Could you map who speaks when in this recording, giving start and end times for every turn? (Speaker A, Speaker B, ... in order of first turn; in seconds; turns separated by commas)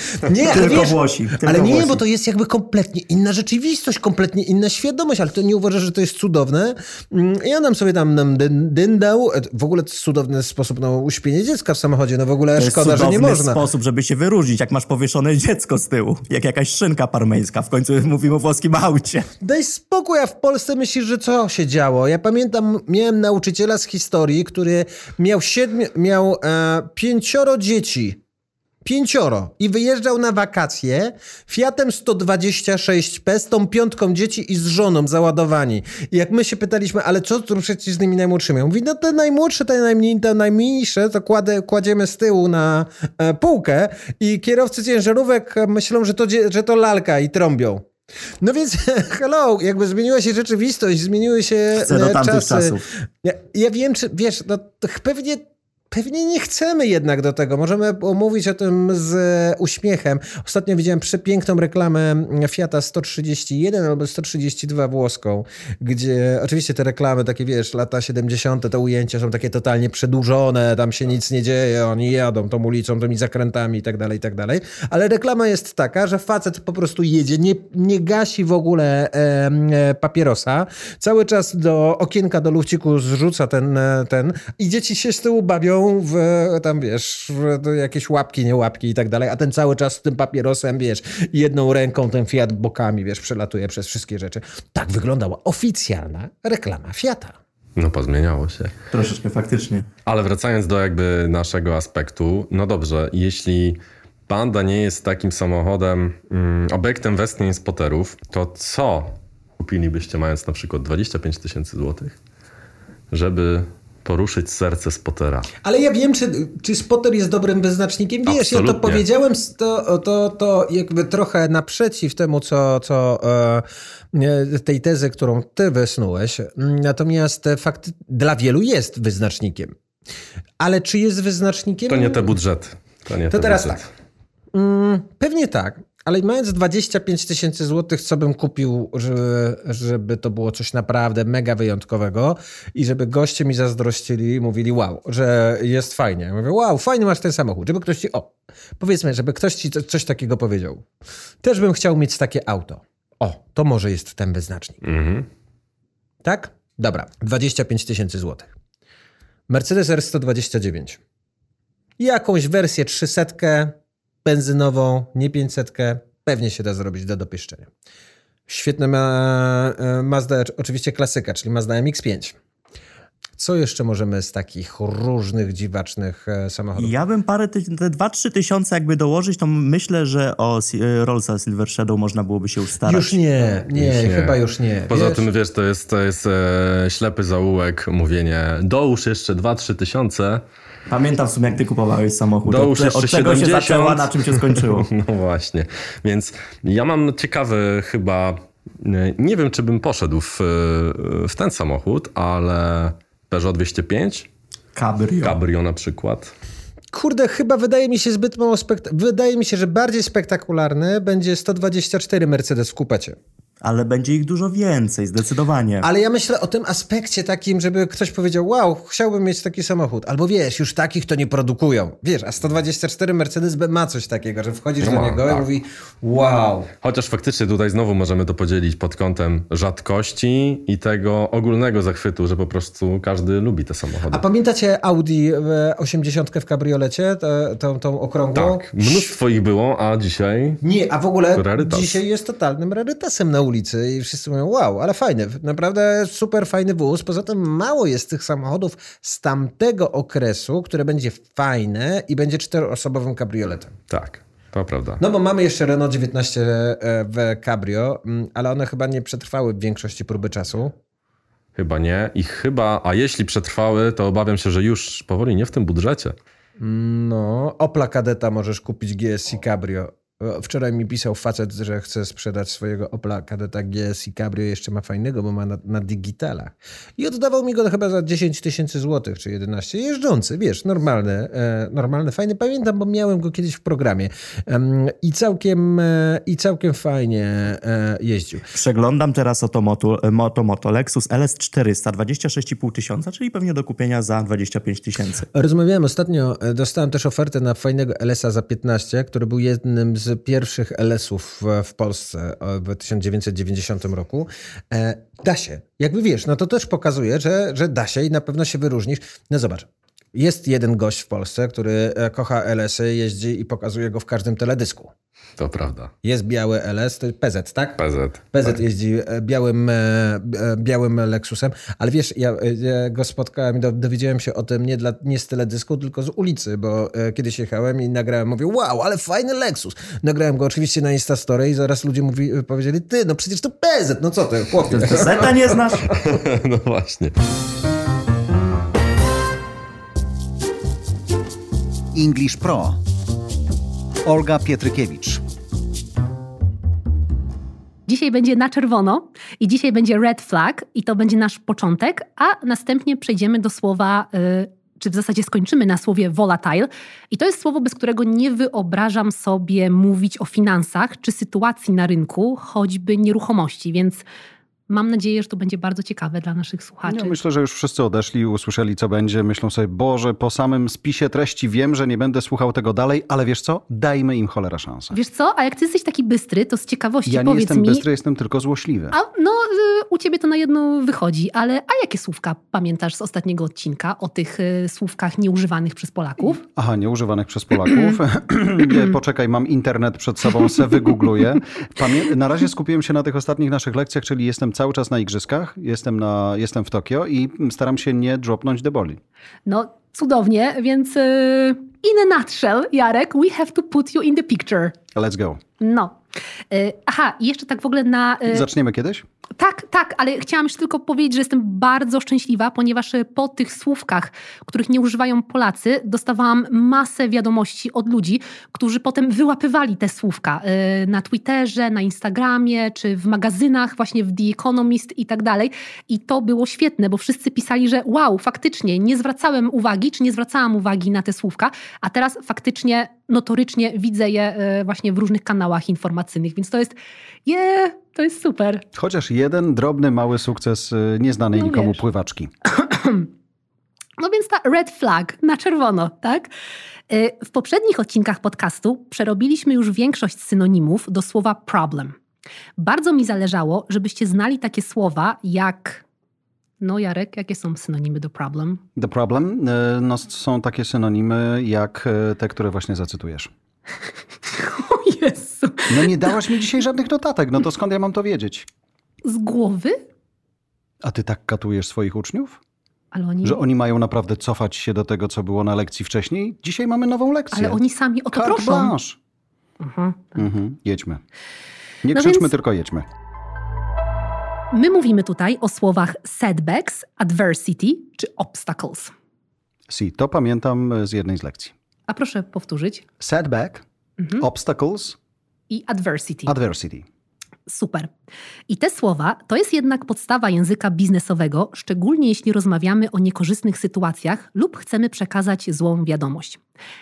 Speaker A: 0.2-13.6, Speaker B: 0.3-2.0, Speaker B: 12.6-19.3, Speaker A: 19.4-28.2, Speaker A: 28.8-47.9, Speaker A: 48.4-97.4, Speaker B: 51.8-52.8, Speaker C: 97.8-98.7, Speaker B: 98.9-99.9, Speaker C: 100.1-112.2, Speaker C: 113.1-115.5, Speaker A: 115.6-129.7, Speaker C: 118.3-119.0, Speaker A: 130.6-132.3, Speaker C: 131.9-133.9, Speaker A: 133.3-133.8, Speaker A: 134.5-150.9, Speaker A: 151.4-154.8, Speaker C: 154.8-155.3, Speaker A: 156.2-158.5, Speaker A: 159.5-161.0, Speaker A: 162.0-167.7, Speaker A: 168.5-172.3, Speaker A: 173.4-176.9, Speaker B: 176.8-183.2, Speaker A: 182.8-185.2, Speaker C: 183.8-190.4, Speaker B: 190.9-194.9, Speaker C: 192.5-204.3, Speaker B: 204.8-205.4, Speaker C: 205.2-206.3, Speaker A: 206.9-213.2, Speaker B: 213.6-215.8, Speaker A: 215.8-226.7, Speaker C: 224.8-225.4, Speaker C: 226.8-234.2, Speaker A: 234.1-239.1, Speaker C: 238.3-240.6, Speaker A: 240.6-253.8, Speaker C: 241.3-242.0, Speaker C: 253.9-255.0, Speaker A: 255.0-260.7, Speaker C: 261.6-266.1, Speaker A: 266.6-288.4, Speaker B: 288.6-295.3, Speaker A: 295.3-314.9, Speaker C: 315.4-315.9, Speaker A: 316.0-317.8, Speaker C: 317.8-318.5, Speaker A: 318.3-335.6, Speaker B: 334.7-335.9, Speaker C: 335.9-337.1, Speaker D: 341.9-342.8, Speaker D: 344.1-345.2, Speaker E: 347.9-364.0, Speaker E: 364.7-367.2, Speaker D: 366.9-375.0, Speaker E: 374.9-377.9, Speaker D: 377.1-378.9, Speaker E: 378.9-386.4, Speaker D: 386.4-399.0, Speaker E: 399.5-404.8, Speaker D: 404.9-405.4, Speaker E: 405.6-406.0, Speaker E: 406.5-408.4, Speaker D: 408.3-409.1, Speaker E: 409.4-436.8, Speaker E: 437.3-438.6, Speaker D: 438.8-442.3, Speaker E: 441.4-441.8, Speaker E: 442.5-443.1, Speaker E: 444.0-446.3, Speaker E: 446.9-451.9, Speaker E: 452.6-455.8, Speaker E: 456.6-458.6, Speaker D: 458.8-463.3, Speaker E: 464.3-465.9, Speaker D: 465.7-468.5, Speaker E: 469.1-469.8, Speaker D: 470.8-472.4, Speaker E: 472.9-473.4, Speaker D: 473.2-477.6, Speaker E: 477.3-478.7, Speaker D: 478.1-479.0, Speaker E: 479.6-480.3, Speaker D: 480.2-481.0, Speaker D: 481.8-482.9, Speaker E: 481.9-482.3, Speaker E: 484.5-488.9, Speaker D: 489.7-491.5, Speaker E: 491.9-492.9, Speaker D: 493.0-493.6, Speaker D: 494.2-495.0, Speaker E: 495.5-496.4, Speaker D: 496.3-496.9, Speaker E: 497.5-497.9, Speaker E: 498.5-506.4